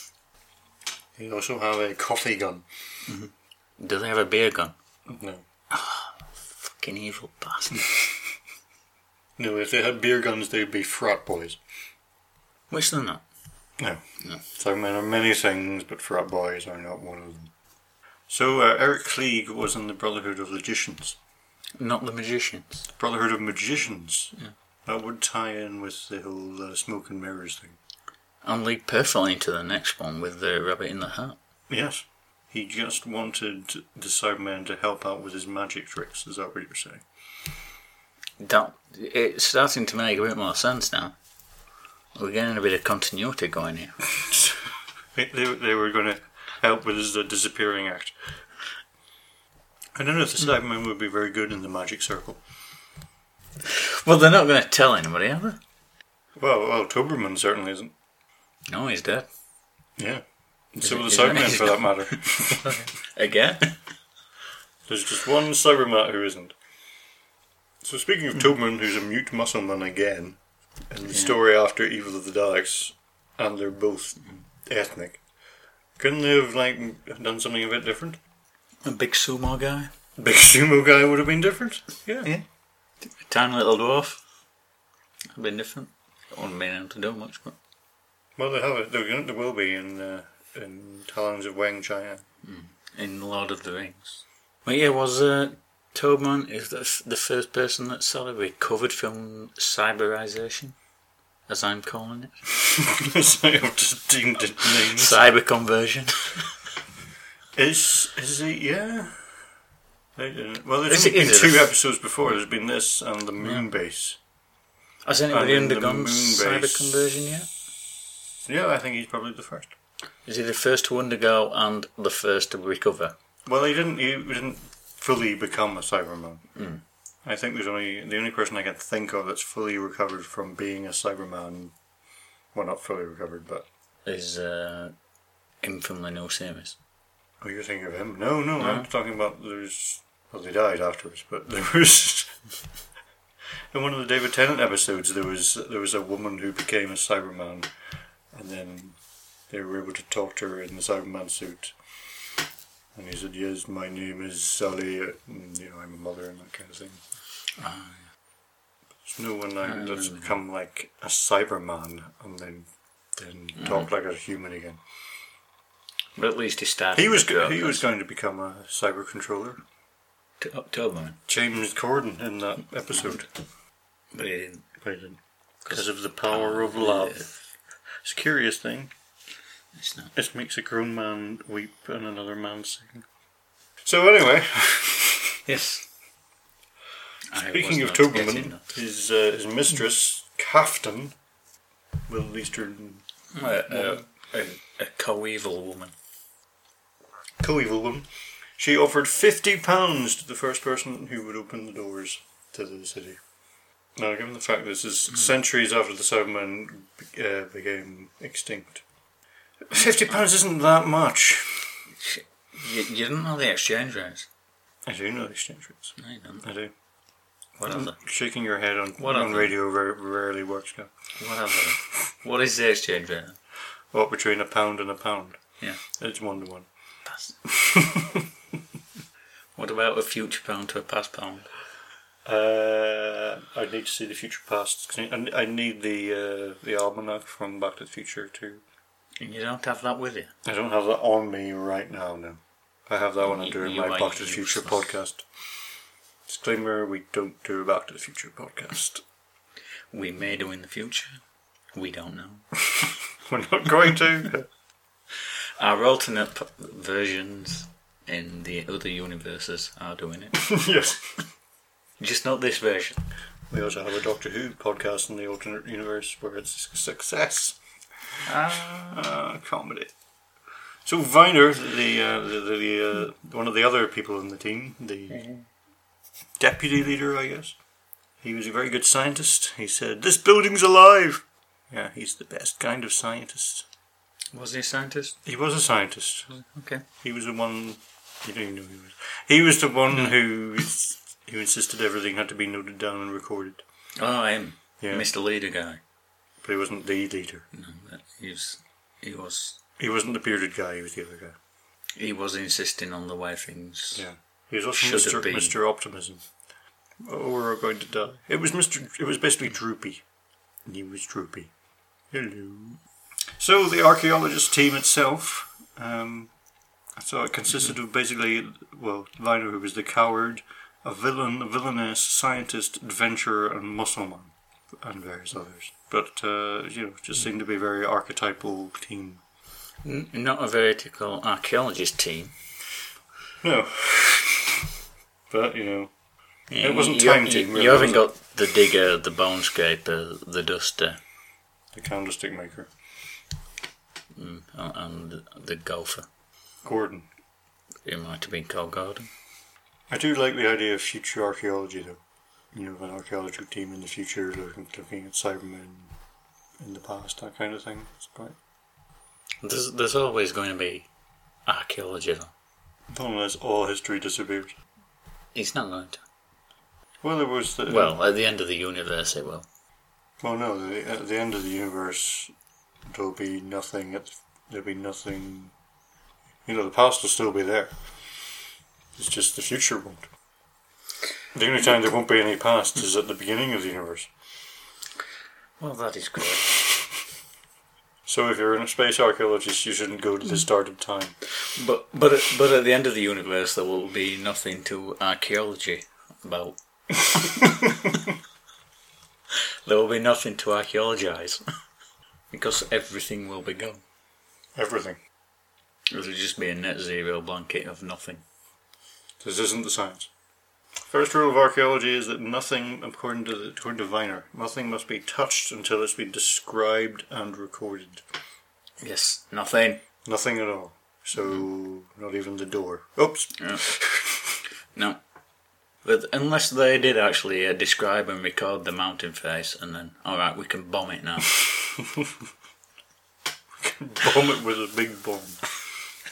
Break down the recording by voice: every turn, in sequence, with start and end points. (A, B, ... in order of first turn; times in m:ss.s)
0:01.2-0:02.6 A
0:03.1-0:04.7 B
0:05.1-0:05.4 A
0:05.7-0:07.9 B
0:09.4-0:11.6 A
0:12.7-0:13.2 B
0:13.8-0:17.5 A
0:18.3-0:21.2 A
0:21.8-0:22.8 B
0:22.9-0:24.3 A
0:24.8-0:27.8 A
0:28.4-0:31.4 B
0:31.7-0:37.0 A
0:38.4-0:41.1 B
0:42.1-0:44.0 B
0:45.1-0:48.1 A
0:49.9-0:52.4 A
0:53.6-0:55.6 B
0:56.4-0:57.9 A
0:58.7-0:59.3 B
1:00.0-1:02.8 A
1:00.8-1:03.8 B
1:04.9-1:06.5 A
1:07.8-1:10.4 A
1:10.9-1:15.2 A
1:11.1-1:11.4 B
1:16.0-1:18.2 A
1:18.8-1:19.9 B
1:20.2-1:22.3 A
1:23.1-1:24.2 B
1:25.3-1:27.6 B
1:28.4-1:32.2 A
1:32.4-1:40.7 B
1:41.5-1:42.4 B
1:42.8-1:45.2 A
1:44.9-1:46.4 B
1:47.5-1:49.4 A
1:50.2-1:54.2 A
1:50.9-1:51.7 B
1:55.0-1:57.5 B
1:55.3-1:57.0 A
1:58.4-1:59.7 A
2:00.2-2:03.1 B
2:03.4-2:06.4 A
2:06.6-2:06.8 B
2:07.2-2:11.7 A
2:12.5-2:13.6 A
2:14.0-2:14.9 B
2:15.6-2:16.8 B
2:17.4-2:22.3 A
2:18.6-2:18.9 B
2:23.7-2:27.7 A
2:28.3-2:29.0 A
2:29.5-2:31.7 A
2:32.9-2:37.0 A
2:37.6-2:38.0 B
2:39.0-2:44.8 A
2:39.6-2:40.3 B
2:43.6-2:43.8 B
2:46.2-2:47.8 B
2:46.9-2:49.6 A
2:50.4-2:51.2 B
2:51.3-2:53.3 A
2:54.1-2:54.6 B
2:54.8-2:57.3 A
2:55.7-2:57.4 B
2:58.0-2:58.9 A
2:59.7-3:00.1 B
3:00.1-3:03.0 A
3:03.8-3:05.4 A
3:05.4-3:05.8 B
3:07.3-3:08.6 B
3:07.3-3:11.1 A
3:12.1-3:13.0 A
3:13.3-3:15.9 B
3:13.7-3:14.0 A
3:17.4-3:23.2 A
3:24.0-3:28.8 A
3:29.6-3:31.7 A
3:31.9-3:34.3 B
3:34.8-3:36.7 A
3:36.0-3:36.4 B
3:37.6-3:38.0 B
3:37.6-3:40.9 A
3:39.0-3:39.5 B
3:41.2-3:43.4 B
3:43.9-3:46.7 A
3:47.0-3:47.3 B
3:47.4-3:48.3 A
3:49.6-3:51.5 B
3:52.2-3:58.6 A
3:59.2-4:00.3 B
4:00.4-4:05.2 A
4:03.2-4:04.8 B
4:06.3-4:09.0 A
4:09.9-4:11.2 B
4:11.7-4:12.4 B
4:12.8-4:14.5 A
4:15.6-4:20.5 B
4:20.3-4:21.1 A
4:22.0-4:23.0 B
4:23.5-4:27.6 A
4:28.2-4:29.0 B
4:28.9-4:29.9 A
4:30.8-4:35.2 A
4:35.1-4:35.4 B
4:36.4-4:37.6 A
4:38.2-4:43.6 A
4:44.3-4:45.2 B
4:45.2-4:46.4 A
4:46.4-4:46.8 B
4:47.0-4:53.6 A
4:54.0-4:55.8 B
4:54.8-4:55.1 A
4:56.4-4:57.4 A
4:57.5-4:59.6 B
4:59.8-5:01.4 A
5:02.0-5:04.0 B
5:03.9-5:06.2 A
5:04.7-5:05.5 B
5:07.0-5:10.0 A
5:10.6-5:11.5 A
5:12.1-5:12.8 A
5:13.4-5:16.3 A
5:17.0-5:29.2 A
5:29.8-5:32.3 B
5:33.4-5:34.7 A
5:35.3-5:35.9 A
5:36.5-5:41.0 B
5:36.6-5:38.1 A
5:41.7-5:42.7 A
5:44.1-5:46.0 B
5:46.6-5:47.1 A
5:47.8-5:49.1 B
5:49.9-5:52.0 A
5:52.5-5:55.9 A
5:56.6-5:58.4 A
5:59.4-6:00.9 B
6:01.4-6:02.3 B
6:02.9-6:04.5 A
6:05.3-6:06.0 B
6:07.0-6:08.0 A
6:07.7-6:09.4 B
6:10.2-6:12.3 A
6:12.9-6:15.5 A
6:16.4-6:17.7 A
6:19.0-6:20.1 A
6:21.3-6:24.1 A
6:25.6-6:26.5 B
6:28.0-6:31.2 A
6:31.5-6:37.5 B
6:39.6-6:41.4 B
6:42.3-6:43.8 B
6:44.6-6:45.0 A
6:45.9-6:48.2 B
6:49.2-6:50.1 A
6:50.9-6:58.0 A
6:58.8-6:59.8 B
7:00.0-7:04.3 A
7:03.4-7:03.6 B
7:04.7-7:05.0 B
7:05.8-7:11.3 B
7:13.6-7:15.4 A